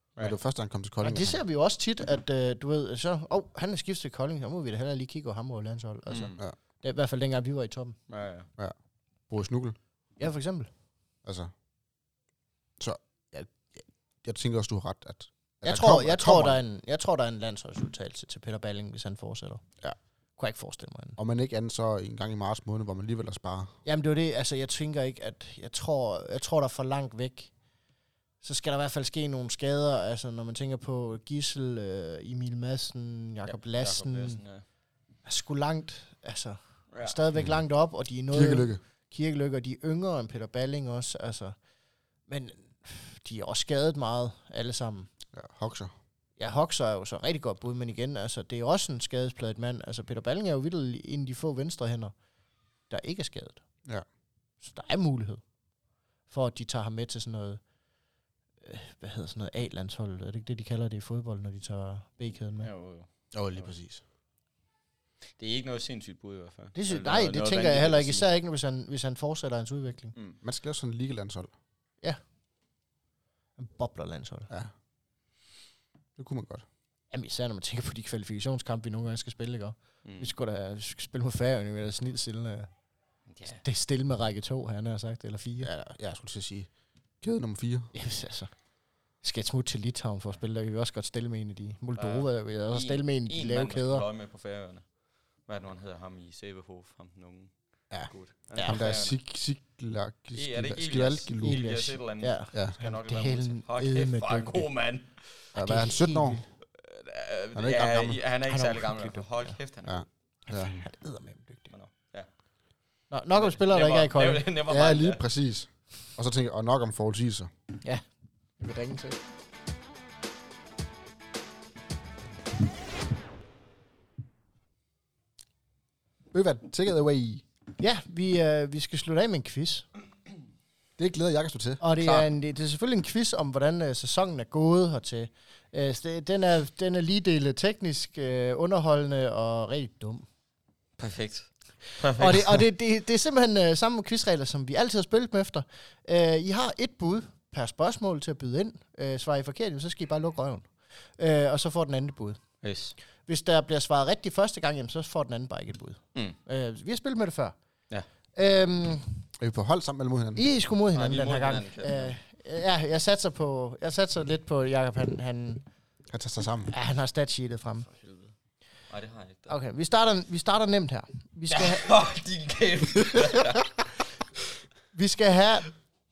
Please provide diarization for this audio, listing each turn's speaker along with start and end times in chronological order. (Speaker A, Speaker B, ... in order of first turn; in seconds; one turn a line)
Speaker A: 0.2-1.4
Speaker B: 1.0-8.0
Speaker C: 6.1-6.4
Speaker C: 8.1-8.5
Speaker A: 9.3-9.8
Speaker B: 10.2-10.7
Speaker A: 11.2-11.5
Speaker A: 12.8-16.6
Speaker B: 15.6-19.6
Speaker B: 20.4-21.2
Speaker A: 21.2-23.7
Speaker B: 23.9-27.5
Speaker B: 28.4-34.4
Speaker C: 33.5-34.6
Speaker B: 35.3-41.5
Speaker C: 36.9-37.2
Speaker A: 38.3-38.8
Speaker B: 42.3-45.1
Speaker A: 45.3-45.9
Speaker B: 46.4-52.1
Speaker B: 52.9-53.6
Speaker B: 54.6-55.4
Speaker B: 56.3-57.6
Speaker B: 58.6-62.7
Speaker C: 62.6-63.7
Speaker A: 63.3-64.0
Speaker C: 65.4-68.3
Speaker B: 66.8-70.1
Speaker A: 70.4-71.5
Speaker B: 73.6-74.5
Speaker A: 76.2-76.7
Speaker B: 77.1-82.7
Speaker C: 80.0-80.3
Speaker C: 83.3-83.6
Speaker B: 83.5-85.7
Speaker A: 85.6-86.7
Speaker A: 87.2-87.9
Speaker B: 87.9-88.5
Speaker B: 89.2-94.0
Speaker C: 92.0-94.8
Speaker C: 95.5-97.5
Speaker C: 98.0-99.2
Speaker B: 98.5-98.8
Speaker A: 98.6-101.6
Speaker C: 100.3-105.3
Speaker B: 101.4-104.7
Speaker A: 105.5-106.5
Speaker B: 105.6-106.4
Speaker C: 106.7-110.0
Speaker A: 107.5-108.2
Speaker B: 108.5-109.5
Speaker A: 109.9-110.8
Speaker B: 110.5-111.7
Speaker C: 111.7-112.3
Speaker B: 113.1-114.5
Speaker C: 113.3-115.2
Speaker A: 114.7-117.5
Speaker B: 118.6-119.2
Speaker A: 126.3-127.4
Speaker B: 127.8-129.9
Speaker A: 131.0-131.8
Speaker B: 131.8-140.3
Speaker C: 132.0-132.3
Speaker C: 141.0-142.6
Speaker B: 142.1-152.4
Speaker C: 152.6-152.9
Speaker B: 153.3-157.6
Speaker B: 158.3-159.3
Speaker A: 159.4-160.4
Speaker B: 160.4-165.7
Speaker C: 160.9-162.2
Speaker A: 166.1-166.7
Speaker B: 166.7-167.9
Speaker C: 167.9-168.3
Speaker C: 168.9-169.5
Speaker B: 169.5-171.9
Speaker C: 171.5-173.7
Speaker B: 174.9-175.7